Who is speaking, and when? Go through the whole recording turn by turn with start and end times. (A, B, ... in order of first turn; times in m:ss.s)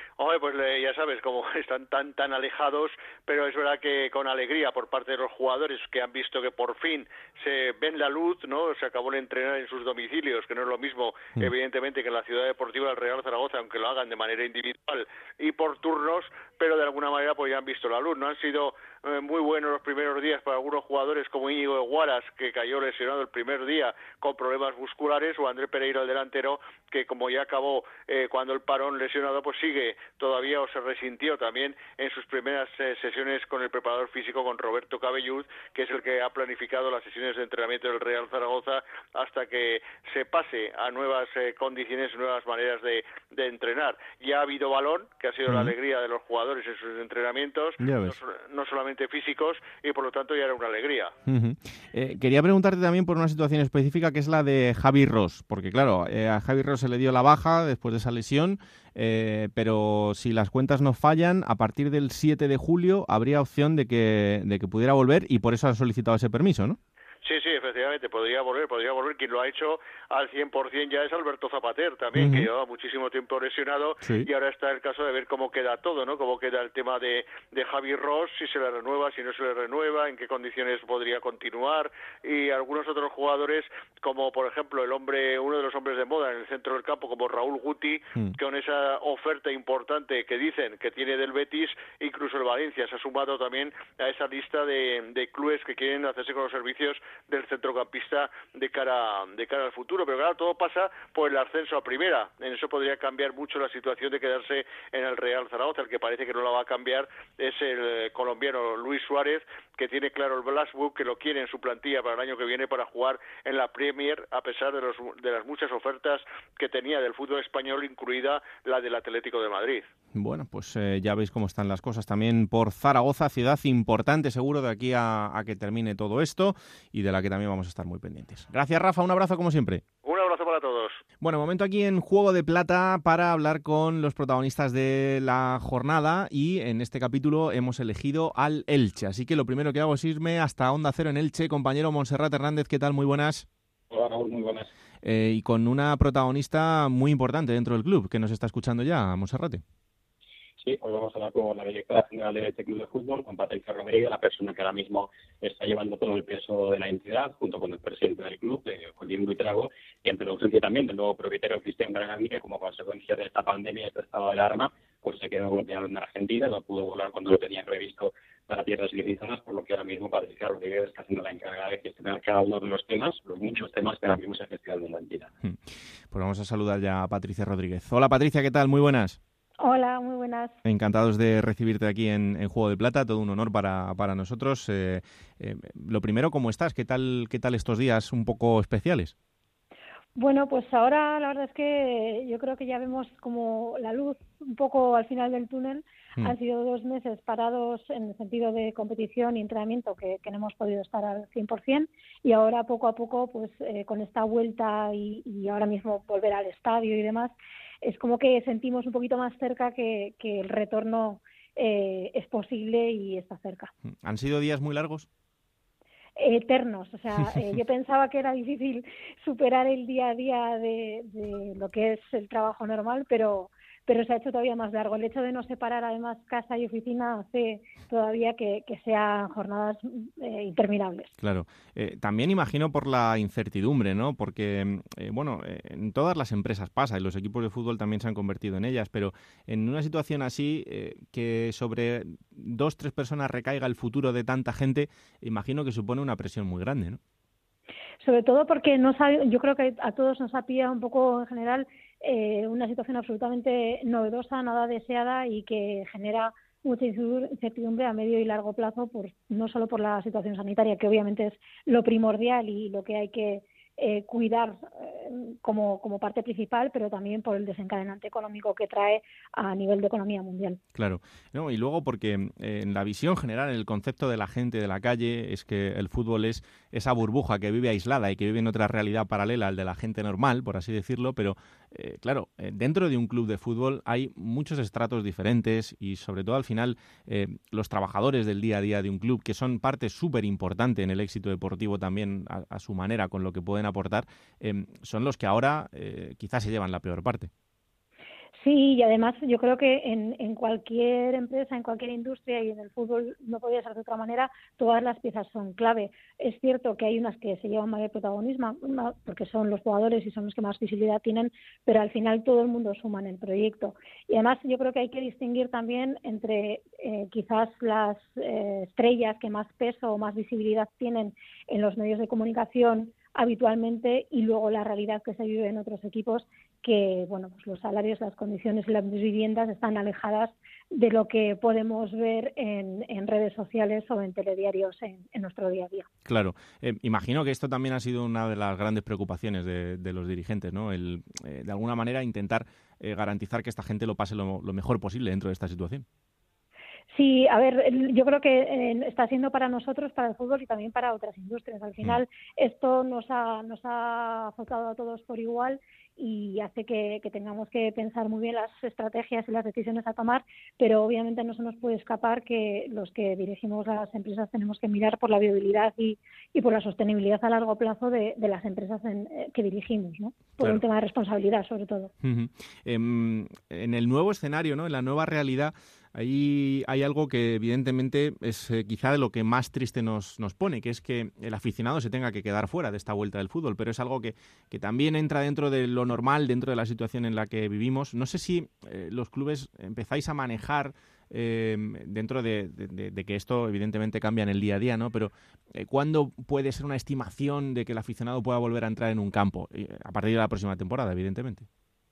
0:00.2-0:51.1 A
0:45.5-0:45.7 B
0:47.8-0:48.2 B
0:51.2-1:06.8 B
1:07.2-1:59.9 A
1:12.1-1:12.5 B
1:14.0-1:14.3 B
2:00.1-2:09.8 B
2:10.0-2:11.0 A
2:11.2-2:23.5 B
2:23.9-2:24.7 C
2:25.0-2:29.6 B
2:30.6-2:55.3 C
2:56.1-2:59.2 B
2:59.6-3:00.6 D
3:00.6-3:09.1 B
3:10.2-3:33.7 D
3:33.9-3:35.1 B
3:36.2-3:51.1 D
3:51.2-4:07.0 B
4:08.0-4:30.6 D
4:30.7-4:57.3 B
4:58.4-5:35.9 D
5:36.0-5:45.8 B
5:46.9-6:11.9 D
6:12.0-6:41.5 B